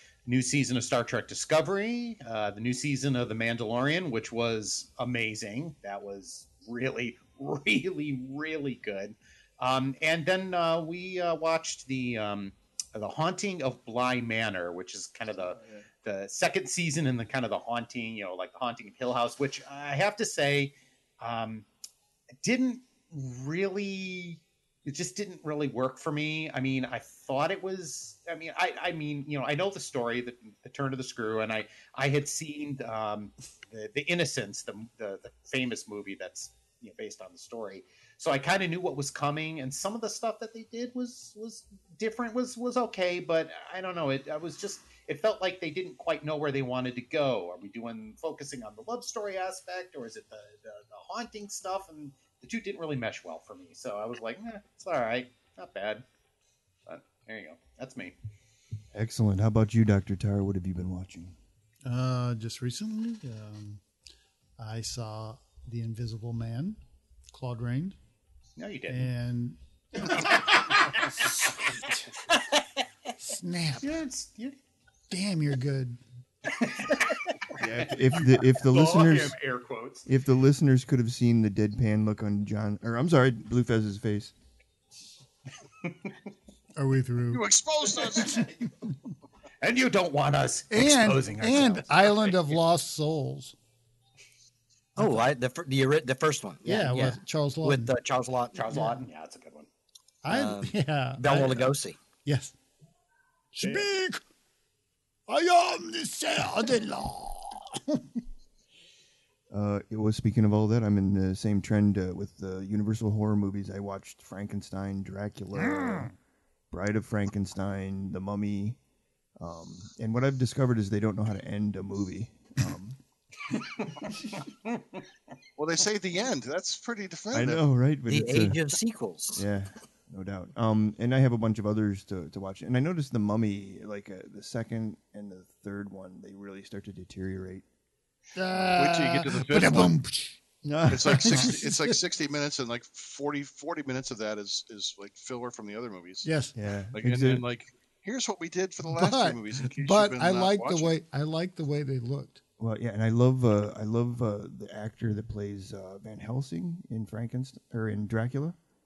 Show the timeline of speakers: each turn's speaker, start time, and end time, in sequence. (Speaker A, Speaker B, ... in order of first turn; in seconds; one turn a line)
Speaker A: 0.2-21.6
Speaker A: 22.4-56.0
Speaker A: 56.9-58.1
Speaker B: 58.9-61.4
Speaker C: 61.8-63.8
Speaker C: 64.6-66.8
Speaker C: 67.3-68.0
Speaker A: 68.6-69.1
Speaker C: 68.9-72.1
Speaker C: 73.2-73.9
Speaker A: 73.8-74.5
Speaker C: 75.1-76.0
Speaker A: 76.5-77.9
Speaker B: 77.6-79.4
Speaker A: 78.6-80.0
Speaker B: 80.0-84.3
Speaker C: 86.8-88.5
Speaker D: 87.3-88.4
Speaker A: 89.6-92.5
Speaker C: 90.7-93.5
Speaker C: 95.0-95.3
Speaker E: 95.0-98.8
Speaker C: 96.7-97.9
Speaker A: 98.5-99.7
Speaker C: 100.2-101.7
Speaker E: 100.3-102.0
Speaker C: 102.2-102.5
Speaker C: 103.5-104.2
Speaker A: 103.6-103.8
Speaker C: 105.3-108.0
Speaker B: 109.5-116.1
Speaker B: 116.7-118.8
Speaker B: 119.4-123.0
Speaker D: 125.6-127.6
Speaker B: 127.3-128.6
Speaker E: 128.1-129.4
Speaker B: 129.3-137.7
Speaker C: 138.3-140.4
Speaker D: 138.7-140.0
Speaker B: 140.6-141.6
Speaker D: 140.9-146.3
Speaker C: 140.9-142.0
Speaker C: 146.2-146.5
Speaker B: 146.6-147.4
Speaker D: 146.9-150.9
Speaker C: 148.8-152.4
Speaker B: 152.6-158.6